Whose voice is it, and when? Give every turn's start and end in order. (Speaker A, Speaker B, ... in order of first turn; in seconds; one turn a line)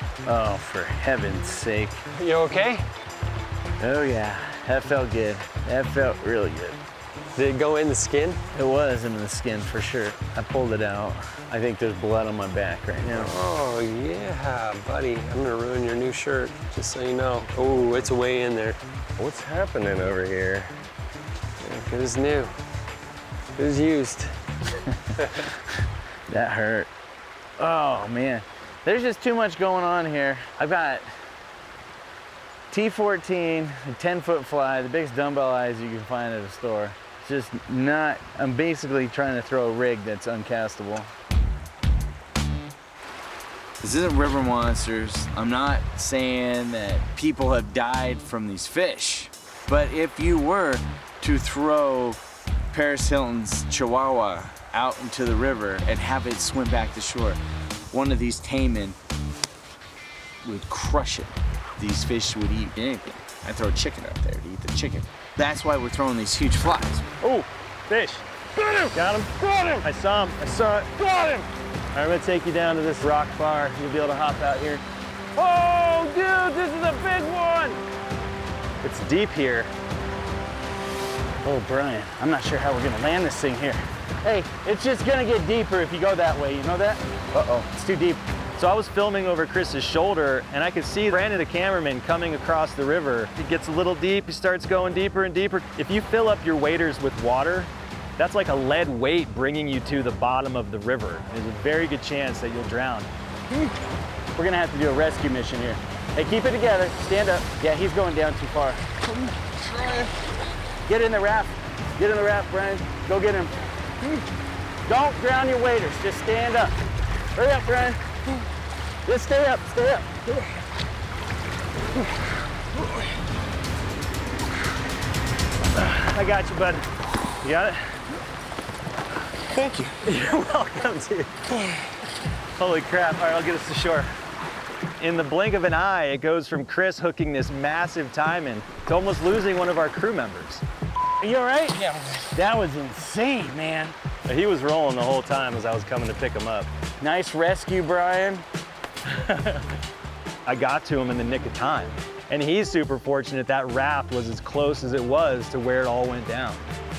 Speaker A: 0.2-2.0
Speaker B: 2.1-2.9
Speaker A: 3.8-6.8
Speaker B: 7.3-8.4
Speaker A: 8.5-13.3
Speaker B: 13.1-18.8
Speaker A: 19.2-20.7
Speaker B: 21.6-22.5
Speaker B: 23.6-24.3
Speaker A: 26.3-26.9
Speaker A: 27.6-31.1
Speaker A: 32.7-41.1
Speaker C: 43.8-52.2
Speaker C: 52.7-57.4
Speaker C: 57.9-59.0
Speaker C: 60.4-67.0
Speaker D: 67.2-68.2
Speaker D: 68.9-71.1
Speaker D: 71.9-74.8
Speaker D: 76.0-77.7
Speaker D: 78.8-79.7
Speaker A: 81.4-88.2
Speaker D: 88.6-103.1
Speaker A: 104.3-108.8
Speaker A: 110.9-113.6
Speaker A: 114.8-116.7
Speaker A: 117.3-118.0
Speaker A: 119.0-120.1
Speaker D: 125.9-126.8
Speaker D: 127.4-127.8
Speaker D: 130.1-131.3
Speaker D: 132.6-134.1
Speaker D: 135.0-140.6
Speaker A: 141.2-143.9
Speaker D: 144.2-146.7
Speaker A: 147.0-148.4
Speaker D: 150.4-156.7